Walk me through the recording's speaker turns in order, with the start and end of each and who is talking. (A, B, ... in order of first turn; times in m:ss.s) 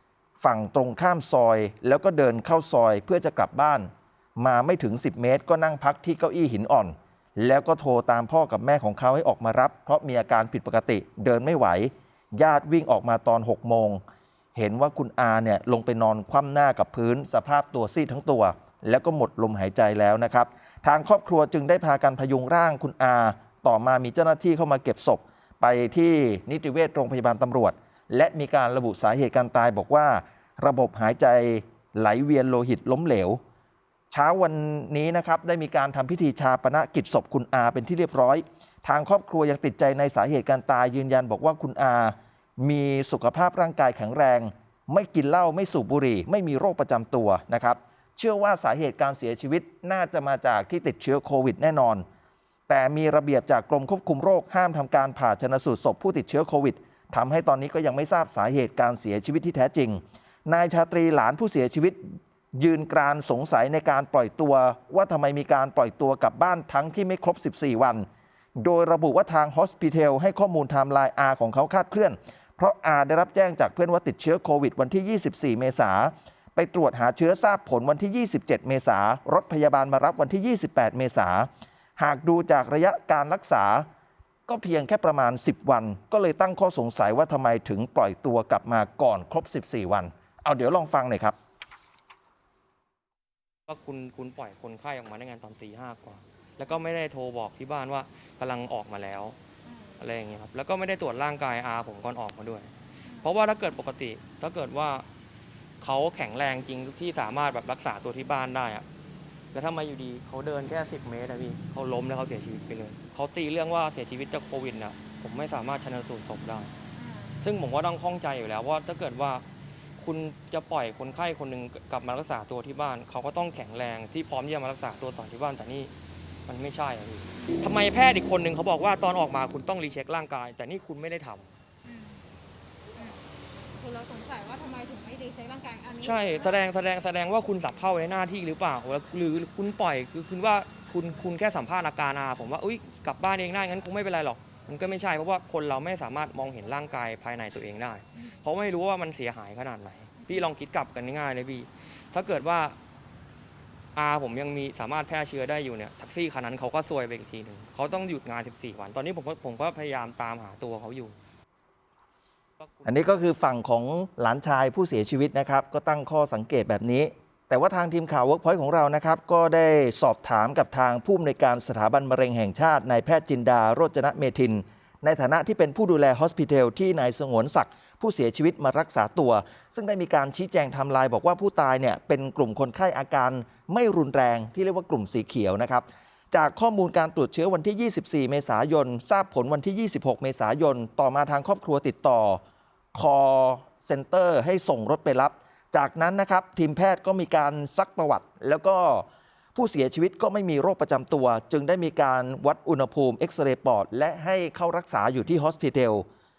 0:00.4-0:14.0 A
0:14.6-0:33.4 A
0:34.1-0:52.0 A
0:52.7-1:08.1 A
1:08.6-1:23.9 A
1:24.5-1:31.4 A
1:33.7-1:39.4 B
1:39.6-1:40.0 C
1:40.0-1:45.1 B
1:43.0-1:43.3 C
1:45.8-1:48.8 B
1:49.5-1:56.7 B
1:57.0-1:57.5 C
1:57.4-1:59.4 B
2:00.0-2:05.9 B
2:06.5-2:11.5 B
2:11.8-2:12.2 C
2:13.8-2:16.6 C
2:16.0-2:32.8 B
2:30.2-2:30.5 C
2:34.0-2:41.2 B
2:42.6-2:43.1 B
2:42.8-3:12.4 A
3:12.9-3:26.0 A